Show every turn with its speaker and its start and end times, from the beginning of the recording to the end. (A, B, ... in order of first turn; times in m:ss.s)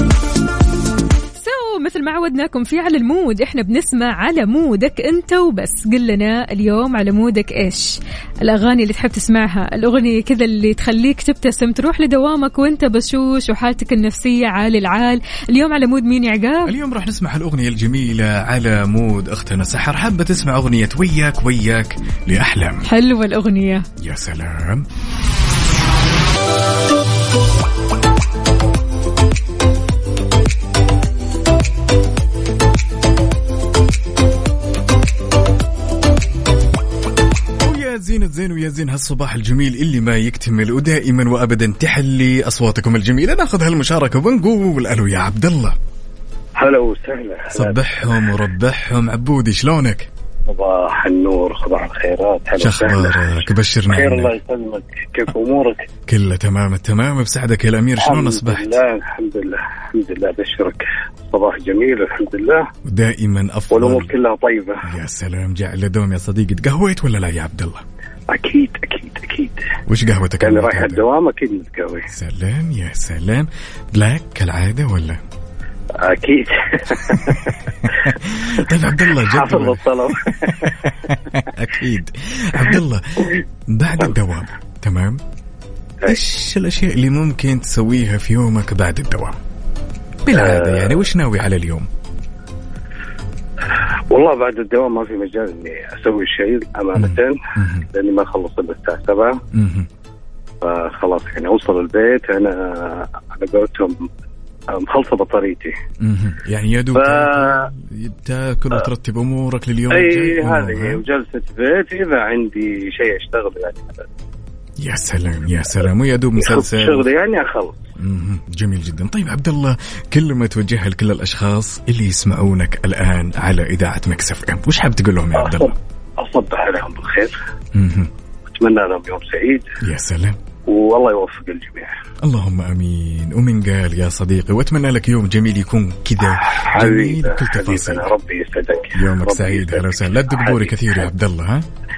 0:01.4-0:16.7 A
0:16.6-0:22.9 B
0:22.8-0:23.9 A
0:24.0-0:24.9 B
0:37.6-0:45.8 B
0:46.6-0:48.4 C
0:47.5-0:50.1 B
0:50.5-0:55.9 C
0:52.6-0:54.3 B
0:56.1-0:58.8 B
0:58.0-1:02.7 C
1:02.8-1:04.1 B
1:03.7-1:04.8 C
1:04.8-1:07.8 B
1:08.3-1:09.6 C
1:09.9-1:11.0 B
1:10.4-1:12.1 C
1:12.1-1:15.2 B
1:16.0-1:17.6 C
1:17.8-1:25.2 B
1:19.1-1:20.7 C
1:26.1-1:29.4 B
1:30.2-1:31.9 B
1:30.3-1:31.0 C
1:33.7-1:37.4 C
1:37.0-1:37.9 B
1:37.9-1:39.4 C
1:39.5-1:39.9 B
1:40.6-1:44.1 C
1:44.7-1:45.8 C
1:46.0-1:51.0 B
1:47.0-1:47.7 C
1:49.9-1:54.0 C
1:54.8-1:57.1 B
1:56.4-1:57.8 C
1:58.0-2:05.7 B
2:05.4-2:07.4 C
2:07.8-2:08.1 B
2:08.5-2:09.7 C
2:09.8-2:10.4 B
2:10.7-2:12.0 C
2:12.2-2:18.1 B
2:16.3-2:21.0 C
2:19.0-2:21.7 B